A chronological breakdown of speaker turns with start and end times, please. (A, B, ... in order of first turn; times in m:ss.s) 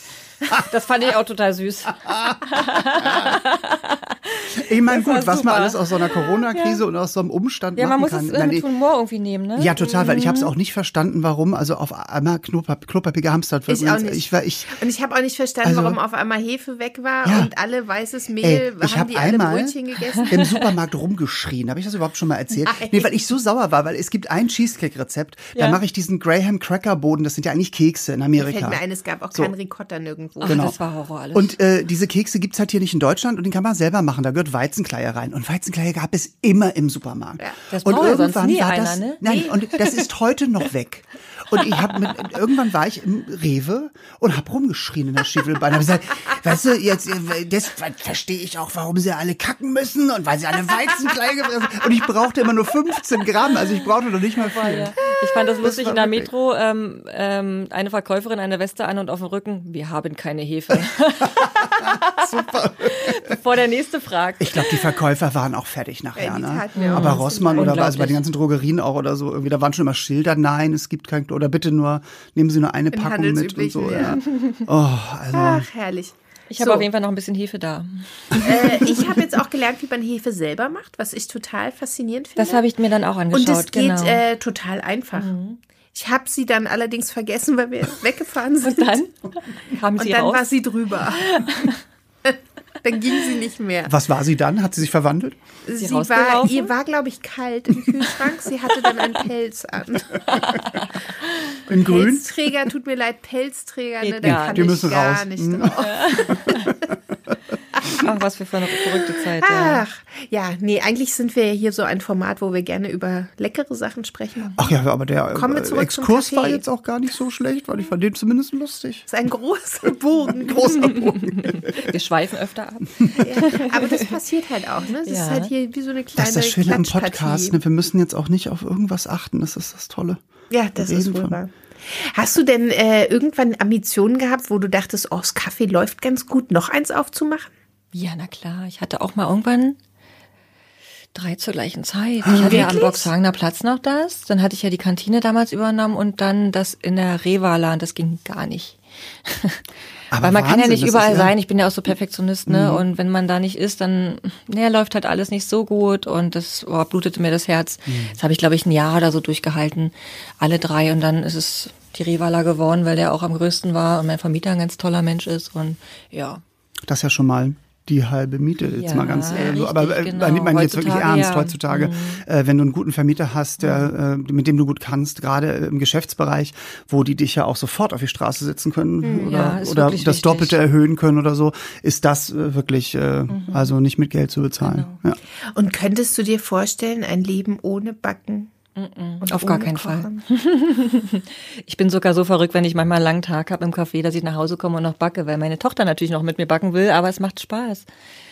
0:00.4-0:06.8 A
0:02.1-0:03.4 B
0:04.5-0:08.6 B
0:07.8-0:10.5 A
0:09.6-0:14.8 B
0:09.8-0:10.1 C
0:13.7-0:20.5 C
0:15.6-0:16.0 B
0:17.2-0:17.5 B
0:18.4-0:19.7 B
0:20.2-0:20.4 A
0:20.3-0:28.8 B
0:22.6-0:23.1 C
0:25.5-0:25.8 A
0:28.4-0:30.7 C
0:30.4-0:31.6 A
0:30.4-0:30.8 B
0:31.3-0:55.0 B
0:37.7-0:39.2 A
0:39.2-0:39.6 C
0:54.4-1:04.9 A
0:55.6-0:56.3 B
1:01.4-1:03.4 B
1:04.4-1:15.7 B
1:06.2-1:07.8 C
1:06.7-1:08.2 A
1:12.9-1:14.2 C
1:15.3-1:16.9 C
1:16.5-1:19.1 A
1:18.4-1:22.6 C
1:22.4-1:24.2 A
1:23.3-1:25.3 C
1:25.1-1:25.6 A
1:25.9-1:29.0 C
1:28.6-1:30.5 A
1:30.0-1:31.4 C
1:31.1-1:31.8 A
1:32.2-1:33.9 C
1:33.8-1:35.4 B
1:35.6-1:40.4 C
1:35.8-1:36.7 A
1:40.3-1:41.6 A
1:41.7-1:42.5 B
1:41.7-1:46.7 C
1:44.0-1:44.9 A
1:44.2-1:46.6 B
1:45.8-1:46.7 A
1:47.9-1:49.8 A
1:49.4-1:54.6 C
1:54.6-1:59.1 B
1:55.3-1:56.6 C
1:59.1-2:01.0 C
2:00.2-2:01.9 B
2:00.8-2:04.1 A
2:03.2-2:07.6 C
2:05.0-2:05.5 A
2:06.2-2:10.2 B
2:10.5-2:17.5 C
2:10.8-2:11.4 B
2:17.9-2:19.8 A
2:21.1-2:29.6 A
2:22.2-2:22.7 B
2:22.4-2:23.1 C
2:30.1-2:31.3 B
2:30.2-2:46.4 A
2:32.5-2:32.8 B
2:37.9-2:38.2 B
2:46.8-3:05.2 B
2:48.7-2:52.2 A
2:53.6-2:53.9 A
2:59.0-2:59.4 C
2:59.2-3:00.6 A
3:03.3-3:03.8 A
3:04.6-3:05.0 A
3:05.5-3:08.5 C
3:08.8-3:17.8 A
3:09.2-3:10.2 C